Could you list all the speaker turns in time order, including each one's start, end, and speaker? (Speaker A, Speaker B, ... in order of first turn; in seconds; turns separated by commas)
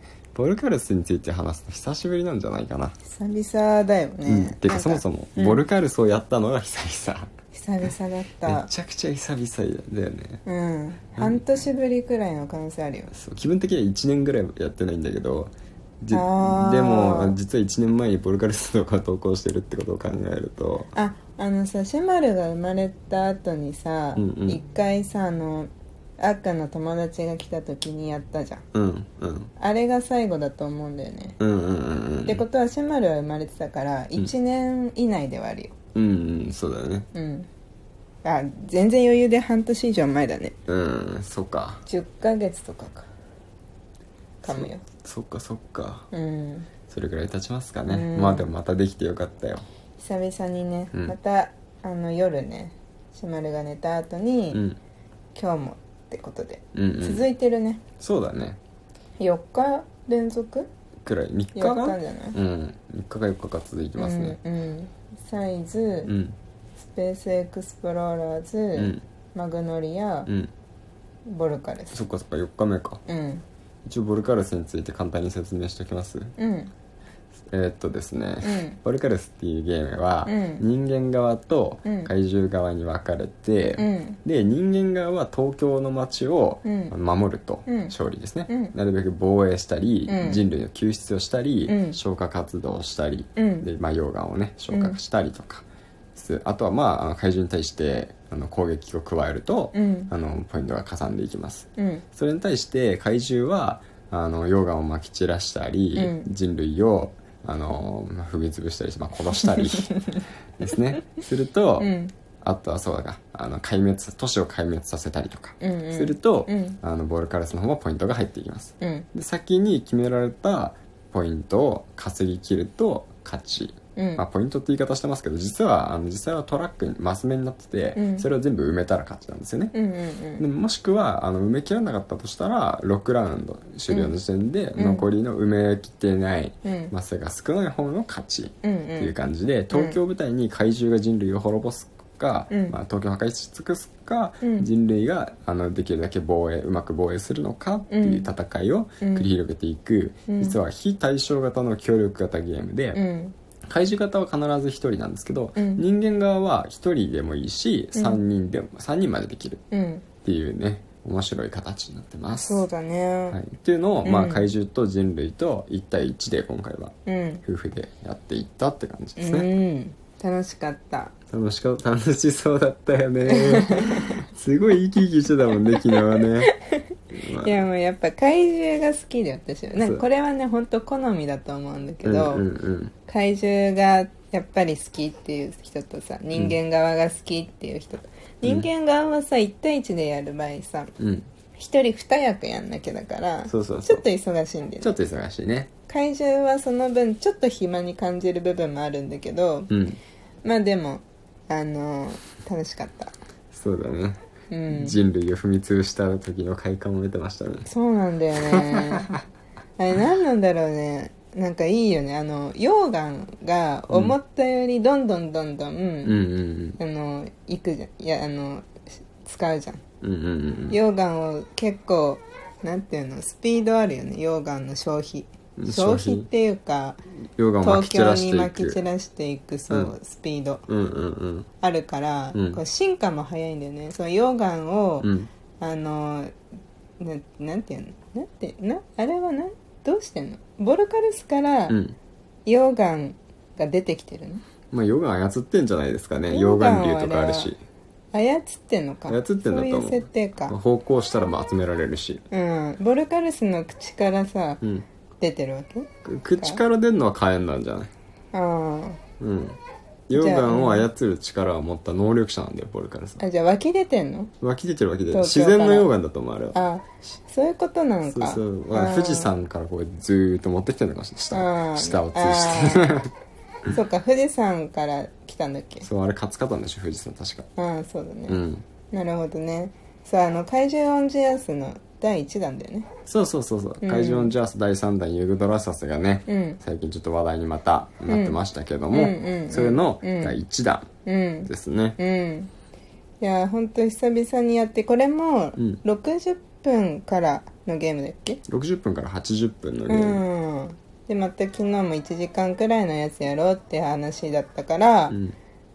Speaker A: 0.3-3.0, Speaker B: 3.0-5.6, Speaker A: 4.2-7.3, Speaker B: 7.5-8.7, Speaker A: 8.4-10.4, Speaker B: 10.4-13.1, Speaker A: 11.2-11.6, Speaker A: 13.1-20.9, Speaker B: 16.1-17.4, Speaker B: 20.9-28.6, Speaker A: 24.1-24.6, Speaker A: 28.7-29.5, Speaker B: 29.6-31.4, Speaker A: 31.4-32.4, Speaker B: 32.2-35.8, Speaker A: 35.9-37.1, Speaker B: 37.1-37.5, Speaker B: 38.2-40.5, Speaker A: 40.7-41.8, Speaker B: 41.9-43.1, Speaker B: 44.4-44.8, Speaker A: 44.4-46.1, Speaker B: 46.1-46.7, Speaker A: 46.9-49.6, Speaker B: 47.8-48.5, Speaker B: 50.0-54.6, Speaker A: 54.5-54.8, Speaker B: 55.3-57.8, Speaker A: 56.7-57.2, Speaker A: 58.0-58.6, Speaker B: 59.2-60.7, Speaker A: 61.0-64.4, Speaker B: 61.5-62.4, Speaker B: 64.0-66.1, Speaker A: 66.0-66.3, Speaker B: 66.9-70.3, Speaker A: 68.8-69.0, Speaker B: 71.2-72.0, Speaker A: 71.9-73.0, Speaker B: 73.1-73.4, Speaker A: 73.8-76.3, Speaker B: 76.4-76.7, Speaker A: 77.5-129.7, Speaker B: 78.4-78.8, Speaker B: 80.2-80.6, Speaker B: 81.8-82.1, Speaker B: 83.8-84.2, Speaker B: 86.6-86.9, Speaker B: 87.7-87.9, Speaker B: 88.5-88.7, Speaker B: 90.1-90.4, Speaker B: 91.7-92.0, Speaker B: 93.4-93.7, Speaker B: 94.7-95.0, Speaker B: 99.7-100.1, Speaker B: 101.8-102.0, Speaker B: 106.0-106.3, Speaker B: 109.5-110.0, Speaker B: 111.8-112.1, Speaker B: 115.6-116.8, Speaker B: 118.8-119.1, Speaker B: 124.0-124.2, Speaker B: 128.0-128.3, Speaker B: 129.7-130.4, Speaker A: 130.4-153.0, Speaker B: 133.9-134.2, Speaker B: 134.8-135.1, Speaker B: 136.6-136.9, Speaker B: 138.6-139.1, Speaker B: 139.7-140.0, Speaker B: 142.5-142.8, Speaker B: 144.4-144.7, Speaker B: 147.9-148.3, Speaker B: 149.0-149.3, Speaker B: 150.3-150.6, Speaker B: 152.9-153.3, Speaker A: 153.7-159.6, Speaker B: 155.6-155.8, Speaker B: 157.9-158.2, Speaker B: 159.7-160.1, Speaker A: 160.2-162.7, Speaker B: 162.3-163.4, Speaker A: 163.3-166.9, Speaker B: 164.1-164.5, Speaker B: 167.1-167.4, Speaker A: 167.5-169.5, Speaker B: 169.2-171.1, Speaker A: 171.3-176.5, Speaker B: 173.3-174.2, Speaker B: 175.8-176.7, Speaker A: 177.1-177.7, Speaker B: 177.4-182.4, Speaker A: 179.8-180.0, Speaker A: 182.0-182.9, Speaker B: 183.1-190.9, Speaker A: 188.4-188.7, Speaker A: 191.0-191.3, Speaker B: 191.6-194.9, Speaker A: 193.5-194.0, Speaker A: 194.8-195.7, Speaker B: 195.9-199.7, Speaker A: 199.7-200.0, Speaker B: 200.4-203.1, Speaker A: 203.5-207.7, Speaker B: 204.5-205.0, Speaker B: 207.7-209.1, Speaker A: 208.5-209.2, Speaker B: 209.8-216.2, Speaker A: 213.9-214.2, Speaker A: 216.0-216.8, Speaker B: 216.8-219.8, Speaker A: 220.0-220.8, Speaker B: 220.7-227.0, Speaker A: 225.6-226.3, Speaker A: 227.4-228.8, Speaker B: 227.6-230.7, Speaker A: 230.7-231.5, Speaker B: 231.6-236.3, Speaker A: 232.3-232.6, Speaker A: 235.0-235.3, Speaker B: 237.0-241.8, Speaker A: 241.7-242.0, Speaker B: 242.5-244.4, Speaker A: 244.7-247.6, Speaker B: 246.3-247.5, Speaker B: 248.1-250.6, Speaker A: 249.1-252.2, Speaker B: 252.3-254.6, Speaker B: 255.2-255.9, Speaker A: 256.0-257.9, Speaker B: 258.3-259.0, Speaker A: 259.2-259.6, Speaker A: 260.1-263.2, Speaker B: 260.1-260.9, Speaker B: 263.2-264.3, Speaker A: 264.4-266.6, Speaker B: 265.1-265.9, Speaker B: 266.5-269.3, Speaker A: 268.1-273.1, Speaker B: 271.3-273.0, Speaker B: 273.7-275.9, Speaker A: 275.8-277.5, Speaker B: 277.6-278.4, Speaker A: 278.3-278.7, Speaker B: 278.9-282.9, Speaker A: 283.1-290.9, Speaker B: 283.8-284.3, Speaker B: 286.3-286.6, Speaker B: 288.1-288.4, Speaker B: 288.9-290.3, Speaker B: 291.1-292.5, Speaker A: 291.4-292.0, Speaker B: 293.2-298.4, Speaker A: 295.6-295.8, Speaker A: 298.5-300.2, Speaker B: 299.9-305.1, Speaker A: 305.1-305.4